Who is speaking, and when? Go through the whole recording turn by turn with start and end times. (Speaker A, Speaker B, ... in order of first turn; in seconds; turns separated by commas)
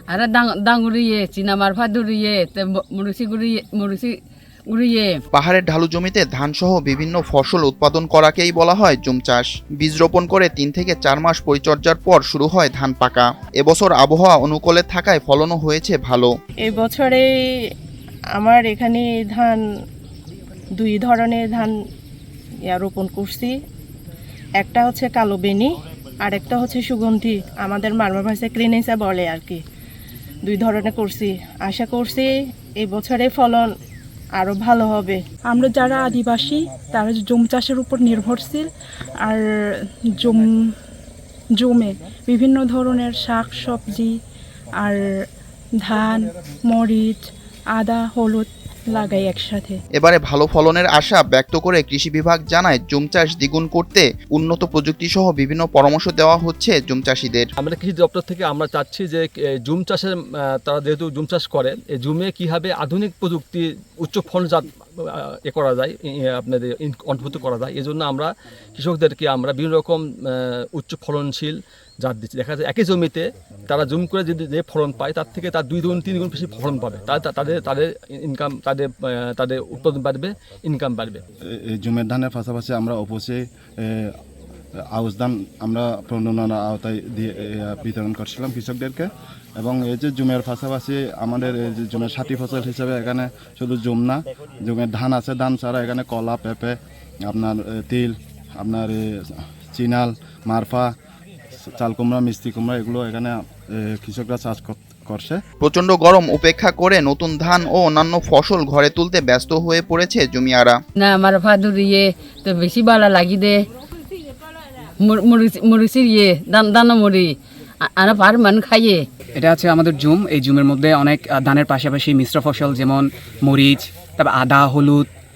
Speaker A: 0.1-4.1, Speaker A: 4.7-5.1, Speaker B: 5.3-16.3, Speaker C: 16.6-17.2, Speaker C: 18.3-19.6, Speaker C: 20.8-21.7, Speaker C: 22.7-23.5, Speaker C: 24.6-25.7, Speaker C: 26.2-29.6, Speaker C: 30.4-33.7, Speaker C: 34.4-35.2, Speaker D: 35.5-38.7, Speaker D: 39.2-39.6, Speaker D: 40.1-40.6, Speaker D: 41.6-44.1, Speaker D: 44.8-45.1, Speaker D: 45.8-49.8, Speaker B: 50.0-57.5, Speaker E: 57.6-81.2, Speaker F: 81.7-83.4, Speaker F: 85.0-89.1, Speaker F: 89.6-96.7, Speaker F: 97.3-99.0, Speaker F: 99.7-100.9, Speaker F: 101.8-105.4, Speaker B: 105.6-110.8, Speaker A: 111.0-113.6, Speaker A: 115.0-117.3, Speaker A: 117.8-119.0, Speaker G: 119.3-125.1